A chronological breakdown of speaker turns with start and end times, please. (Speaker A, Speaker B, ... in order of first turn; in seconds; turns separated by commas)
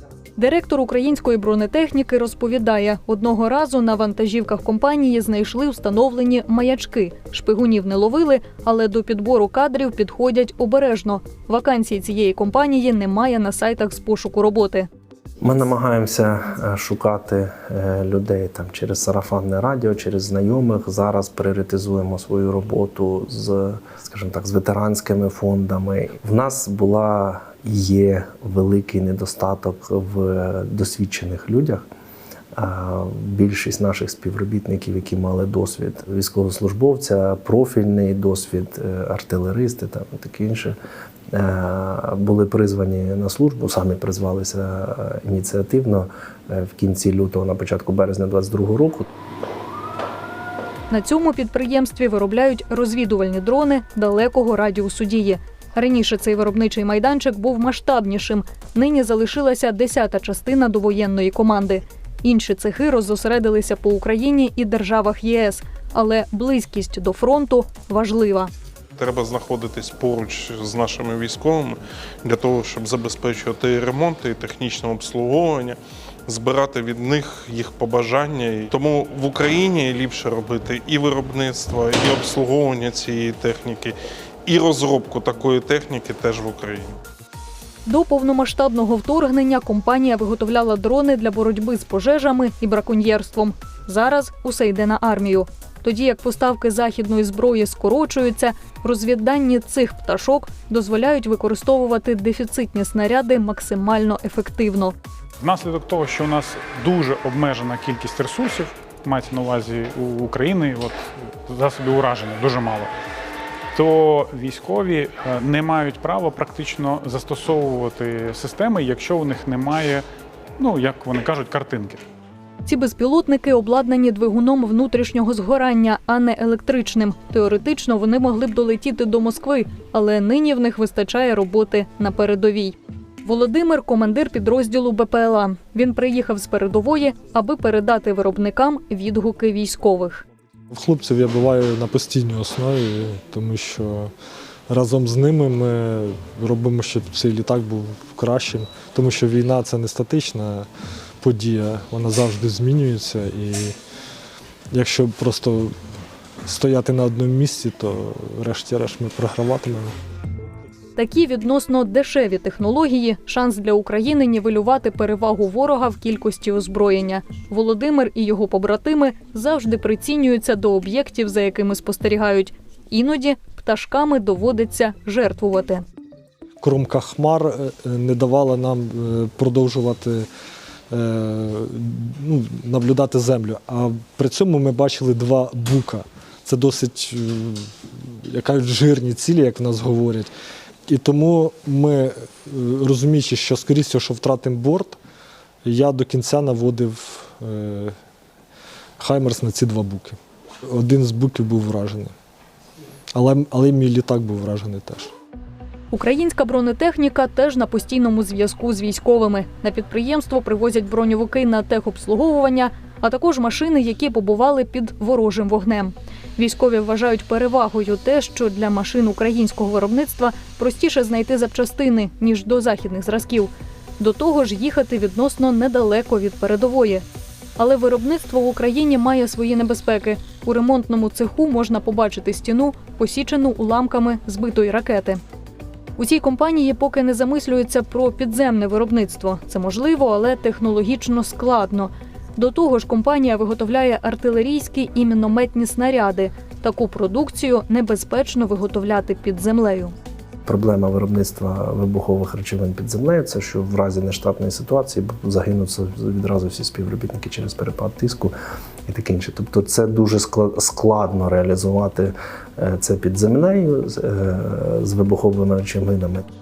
Speaker A: 0.4-14.9, Speaker B: 15.4-31.8, Speaker B: 32.5-40.8, Speaker B: 41.3-49.1, Speaker A: 50.9-68.5, Speaker C: 69.0-83.9, Speaker C: 84.5-87.0, Speaker A: 87.8-104.9, Speaker D: 105.4-112.9, Speaker D: 113.7-120.0, Speaker D: 120.6-122.0, Speaker A: 122.7-140.2, Speaker E: 140.7-144.1, Speaker E: 144.7-150.7, Speaker E: 151.2-153.8, Speaker E: 154.7-155.7, Speaker E: 156.4-159.9, Speaker A: 161.0-175.8, Speaker E: 176.6-180.3, Speaker E: 180.9-190.3, Speaker E: 190.9-195.0, Speaker E: 195.7-197.9, Speaker E: 199.0-202.1, Speaker E: 203.2-205.1, Speaker A: 205.9-227.0, Speaker A: 227.6-235.2, Speaker A: 236.0-249.9, Speaker B: 250.5-258.3, Speaker B: 258.9-266.2